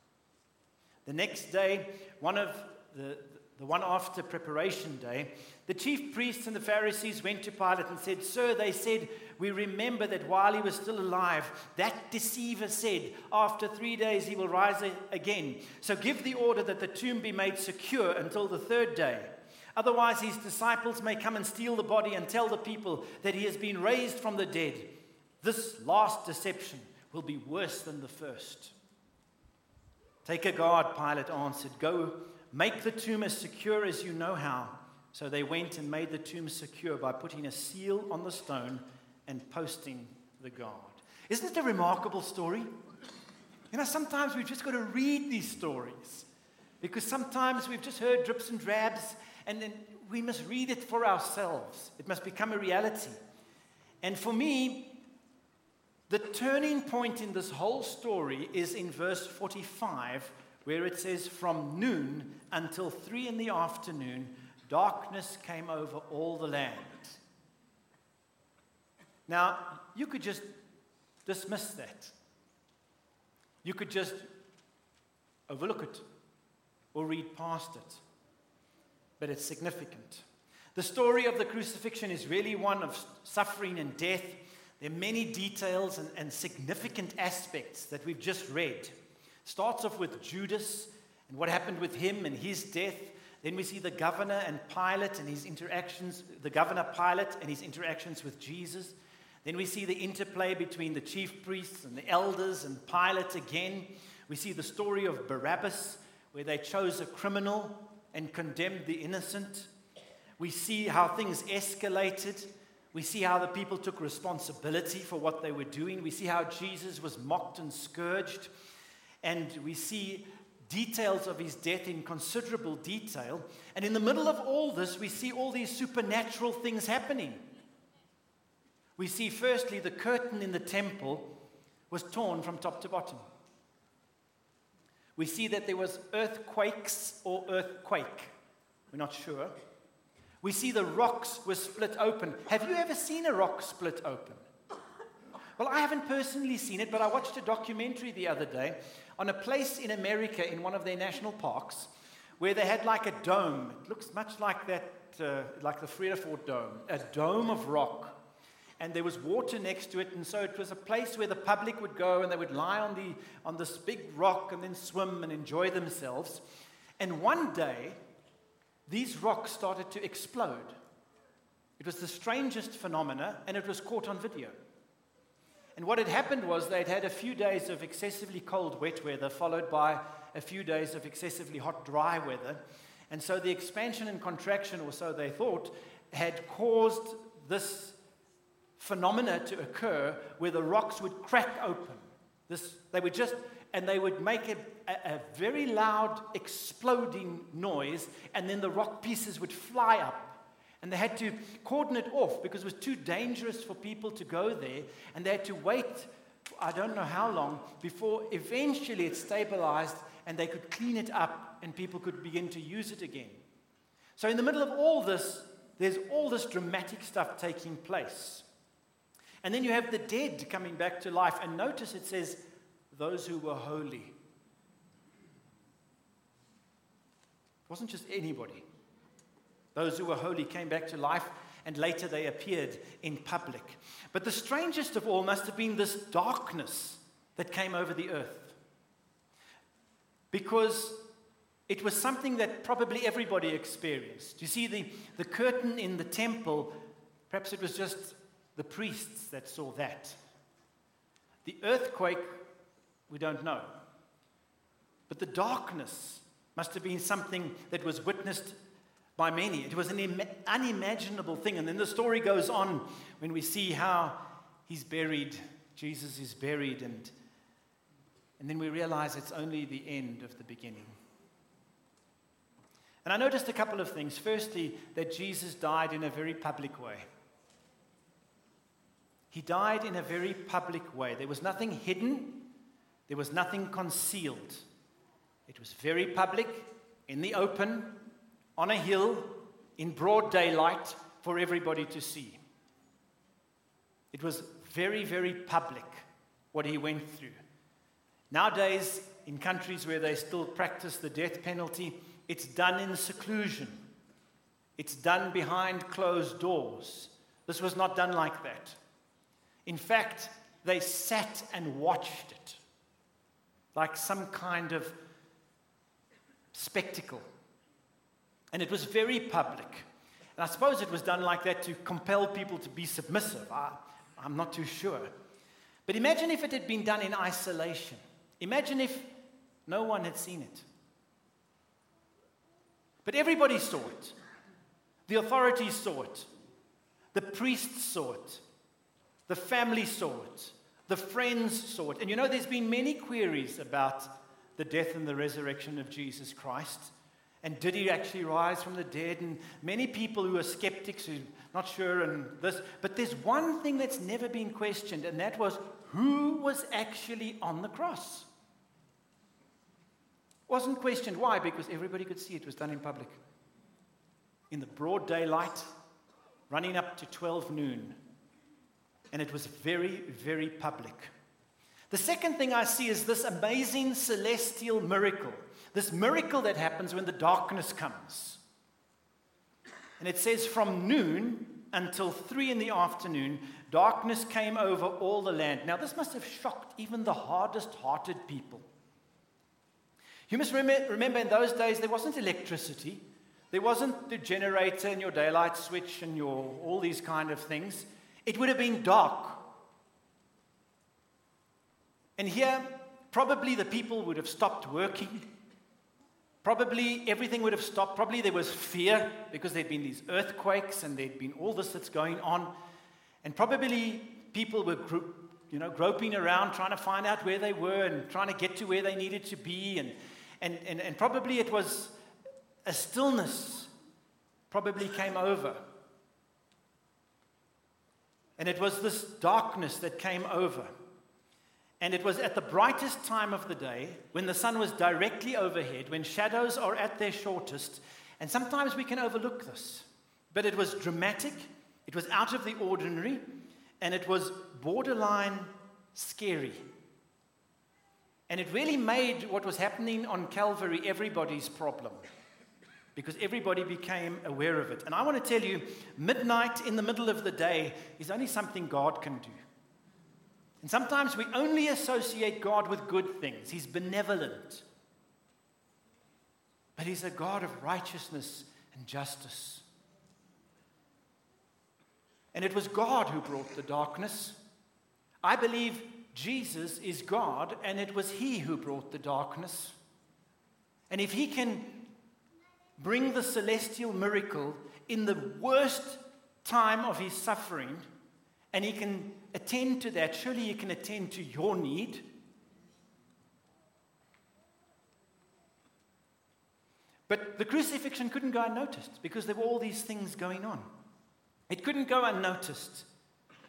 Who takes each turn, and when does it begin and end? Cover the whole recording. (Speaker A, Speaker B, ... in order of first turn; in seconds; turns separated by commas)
Speaker A: 1.1-28.7, Speaker A: 30.2-42.7, Speaker A: 43.7-46.3, Speaker A: 46.8-53.2, Speaker A: 54.0-55.0, Speaker A: 56.1-67.2, Speaker A: 69.3-70.5, Speaker A: 71.2-72.1, Speaker A: 73.6-74.3, Speaker A: 75.5-76.0, Speaker A: 76.9-78.0, Speaker A: 79.2-80.2, Speaker A: 80.7-88.9, Speaker A: 89.4-109.7, Speaker A: 110.4-118.5, Speaker A: 119.2-127.4, Speaker A: 129.0-133.2, Speaker A: 135.2-138.3, Speaker A: 138.9-139.5, Speaker A: 140.4-144.4, Speaker A: 145.6-158.2, Speaker A: 158.8-166.4, Speaker A: 167.0-168.0, Speaker A: 168.9-170.8, Speaker A: 171.8-174.6, Speaker A: 175.8-188.0, Speaker A: 188.8-213.4, Speaker A: 214.2-218.4, Speaker A: 219.4-224.1, Speaker A: 227.7-228.6, Speaker A: 229.7-238.6, Speaker A: 240.3-241.0, Speaker A: 241.7-246.7, Speaker A: 247.3-250.2, Speaker A: 251.4-252.4, Speaker A: 253.1-253.7, Speaker A: 255.1-258.6, Speaker A: 259.2-267.1, Speaker A: 268.4-270.9, Speaker A: 273.0-277.1, Speaker A: 279.3-282.5, Speaker A: 283.1-284.6, Speaker A: 285.5-288.0, Speaker A: 288.6-292.4, Speaker A: 294.1-297.4, Speaker A: 298.3-303.8, Speaker A: 304.8-308.8, Speaker A: 309.6-312.6, Speaker A: 313.7-314.9, Speaker A: 316.5-317.2, Speaker A: 318.5-325.1, Speaker A: 325.9-329.1, Speaker A: 329.6-330.6, Speaker A: 333.0-334.1, Speaker A: 335.1-336.3, Speaker A: 337.1-338.4, Speaker A: 339.3-358.3, Speaker A: 360.5-363.2, Speaker A: 364.5-365.7, Speaker A: 366.5-368.0, Speaker A: 369.1-371.1, Speaker A: 371.9-378.4, Speaker A: 380.0-388.6, Speaker A: 390.3-399.5, Speaker A: 402.2-405.3, Speaker A: 406.4-412.5, Speaker A: 413.2-421.9, Speaker A: 422.6-423.7, Speaker A: 424.5-425.6, Speaker A: 428.4-430.7, Speaker A: 431.8-443.2, Speaker A: 443.8-446.6, Speaker A: 448.3-452.0, Speaker A: 452.9-459.4, Speaker A: 460.6-464.6, Speaker A: 466.8-469.6, Speaker A: 472.3-474.4, Speaker A: 475.2-479.8, Speaker A: 480.9-481.9, Speaker A: 482.8-487.8, Speaker A: 488.5-492.0, Speaker A: 497.1-500.7, Speaker A: 501.5-502.9